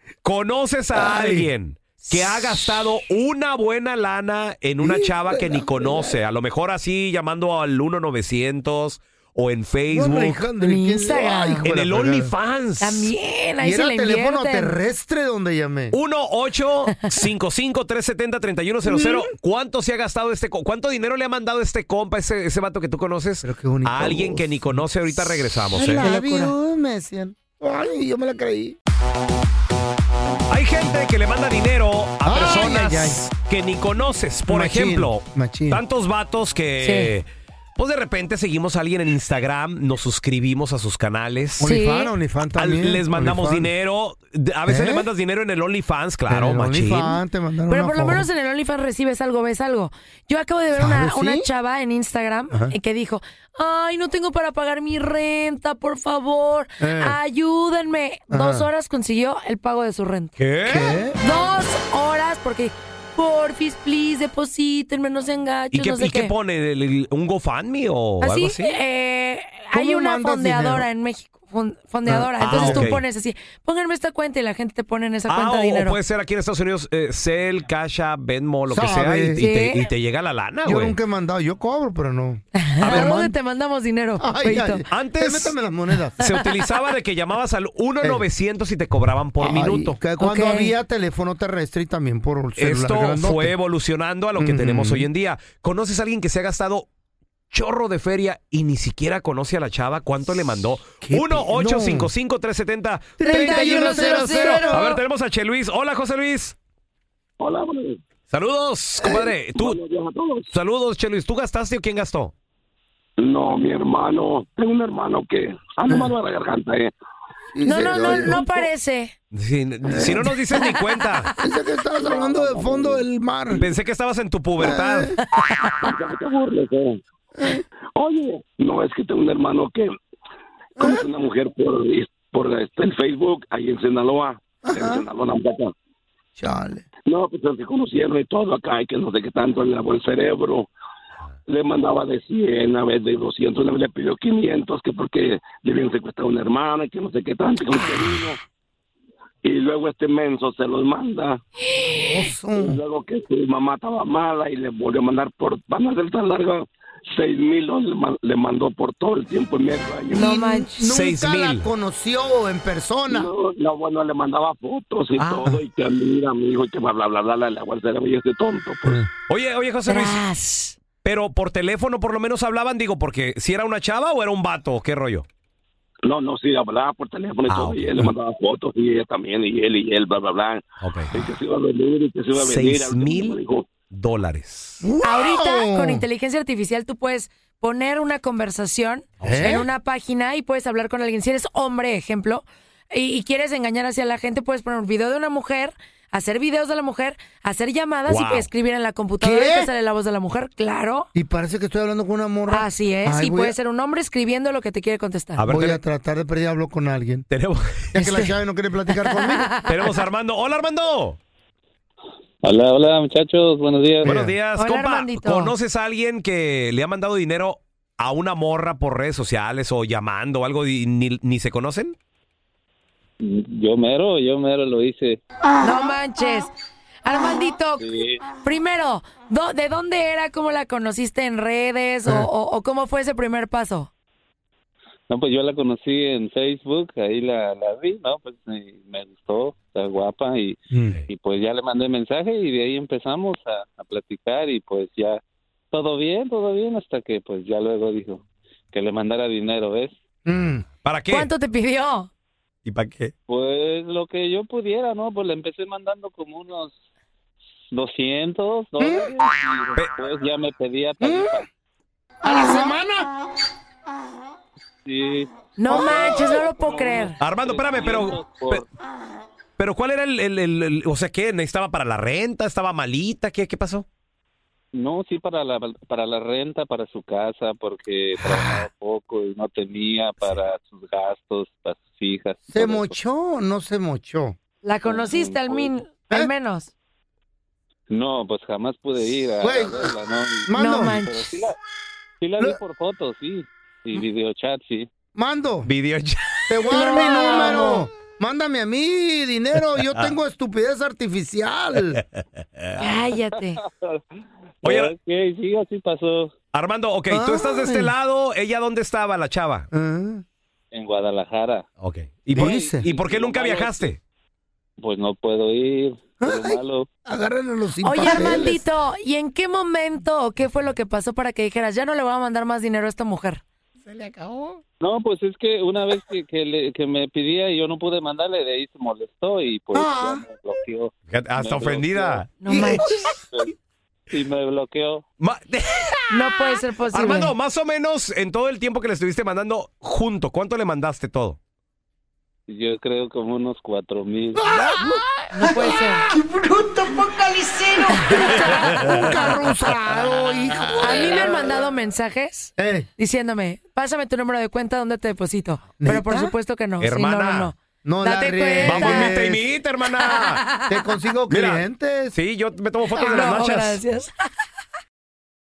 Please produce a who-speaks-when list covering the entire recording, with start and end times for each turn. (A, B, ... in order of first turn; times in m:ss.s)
0:00.2-0:10.4 A
0:00.9-0:01.5 B
0:04.8-0:06.2 B
0:09.9-0:12.3 B
0:10.6-0:11.6 C
0:11.6-0:13.1 A
0:12.8-0:14.7 C
0:13.6-0:16.0 B
0:15.9-0:26.0 A
0:18.8-0:19.3 B
0:23.4-0:24.8 B
0:25.7-0:28.8 B
0:25.9-0:26.5 C
0:30.5-0:37.2 A
0:32.2-0:33.2 B
0:34.5-0:35.8 B
0:36.8-0:37.1 C
0:37.8-0:41.7 A
0:41.6-0:43.7 B
0:41.6-0:42.1 C
0:42.5-0:47.2 A
0:44.7-0:45.1 B
0:46.3-0:48.2 B
0:47.7-1:00.4 C
0:50.8-0:51.5 B
0:56.8-0:57.2 B
0:58.3-0:58.7 B
1:00.4-1:01.0 A
1:00.6-1:01.2 B
1:01.2-1:06.3 C
1:05.7-1:08.7 A
1:08.2-1:16.0 C
1:09.7-1:10.8 B
1:12.0-1:12.9 B
1:12.4-1:13.0 A
1:15.3-1:21.0 A
1:18.7-1:19.4 B
1:19.4-1:19.8 C
1:20.6-1:23.3 B
1:22.5-1:24.8 C
1:24.2-1:26.2 B
1:24.9-1:25.6 A
1:26.2-1:30.0 A
1:29.4-1:33.5 B
1:30.2-1:30.7 C
1:32.6-1:36.9 A
1:34.4-1:35.1 B
1:37.5-1:46.6 A
1:41.0-1:42.1 B
1:43.2-1:45.0 B
1:43.3-1:44.9 C
1:47.4-1:48.0 D
1:48.3-1:49.8 A
1:49.0-1:49.2 B
1:49.2-1:50.5 D
1:50.5-1:52.3 A
1:53.2-1:56.9 D
1:57.5-1:58.6 B
1:57.6-1:59.1 C
1:59.3-2:01.3 A
1:59.8-2:00.3 B
2:00.5-2:00.8 C
2:01.4-2:03.7 B
2:03.6-2:05.1 A
2:04.6-2:05.2 B
2:05.3-2:05.7 C
2:05.8-2:07.0 D
2:07.4-2:07.6 B
2:08.0-2:09.9 D
2:10.8-2:15.7 D
2:10.8-2:11.0 B
2:14.6-2:15.0 B
2:16.4-2:16.8 B
2:17.1-2:20.7 D
2:21.5-2:28.4 D
2:29.4-2:31.4 D
2:31.9-2:32.8 B
2:32.5-2:40.3 D
2:40.1-2:40.7 C
2:40.1-2:43.3 B
2:40.8-2:41.7 A
2:43.1-2:49.0 D
2:45.2-2:45.5 A
2:49.3-2:50.2 A
2:49.9-2:50.8 C
2:51.0-2:55.2 A
2:56.0-3:03.7 D
2:57.5-2:58.1 A
3:00.8-3:01.2 A
3:02.3-3:03.4 A
3:03.9-3:04.8 A
3:04.8-3:06.0 B
3:05.0-3:21.1 C
3:09.2-3:09.6 A
3:09.2-3:09.7 B
3:18.1-3:18.5 A
3:19.2-3:19.7 B
3:21.1-3:23.6 B
3:22.5-3:25.4 C
3:25.4-3:25.8 A
3:25.5-3:27.2 B
3:27.3-3:27.9 A
3:27.9-3:29.5 B
3:27.9-3:28.3 C
3:29.0-3:29.7 C
3:29.6-3:31.2 A
3:32.4-3:34.2 E
3:34.0-3:34.3 B
3:34.0-3:41.9 A
3:34.6-3:35.5 C
3:43.2-3:45.2 E
3:45.6-3:46.5 C
3:47.0-3:53.9 C
3:47.8-3:48.2 E
3:55.1-4:05.2 E
4:00.7-4:01.0 B
4:05.7-4:09.9 E
4:10.2-4:10.6 B
4:10.8-4:11.3 A
4:11.1-4:12.1 C
4:12.6-4:13.1 A
4:13.3-4:16.8 E
4:17.7-4:21.5 E
4:18.8-4:19.1 B
4:21.0-4:21.4 B
4:22.2-4:23.1 B
4:24.8-4:28.7 E
4:25.6-4:27.2 C
4:25.7-4:26.4 B
4:27.2-4:28.6 A
4:29.6-4:33.8 A
4:34.7-4:42.9 E
4:38.2-4:38.6 B
4:42.5-4:44.4 B
4:44.6-4:46.7 C
4:44.8-4:45.7 E
4:47.9-4:51.6 E
4:49.4-4:49.9 B
4:50.4-4:51.0 B
4:50.5-4:51.5 C
4:52.2-4:54.9 E
4:55.1-4:55.7 B
4:55.6-4:56.6 A
4:56.5-5:02.0 B
4:56.7-4:57.9 C
5:02.0-5:02.7 A
5:02.8-5:04.0 E
5:02.8-5:03.6 C
5:04.6-5:06.3 E
5:04.6-5:04.9 A
5:06.5-5:09.7 A
5:07.1-5:07.9 B
5:09.7-5:10.2 B
5:10.7-5:11.6 E
5:11.8-5:14.0 A
5:12.3-5:14.0 E
5:12.3-5:12.8 B
5:14.8-5:16.9 E
5:16.2-5:18.6 B
5:17.8-5:23.4 C
5:23.9-5:24.6 A
5:24.8-5:32.3 E
5:29.7-5:30.2 B
5:31.1-5:33.0 A
5:32.4-5:32.9 C
5:32.5-5:32.8 B
5:34.1-5:35.0 E
5:35.2-5:41.4 A
5:36.1-5:37.3 C
5:42.5-5:44.6 E
5:44.3-5:51.6 B
5:44.5-5:44.8 A
5:45.3-5:46.1 C
5:47.8-5:49.2 C
5:50.8-5:59.1 C
5:52.6-5:52.9 B
5:55.8-5:56.3 B
5:56.8-5:57.5 A
5:57.8-5:59.4 B
5:58.6-6:00.4 A
6:00.0-6:00.8 C
6:00.7-6:02.2 B
6:01.3-6:03.8 A
6:02.9-6:04.1 C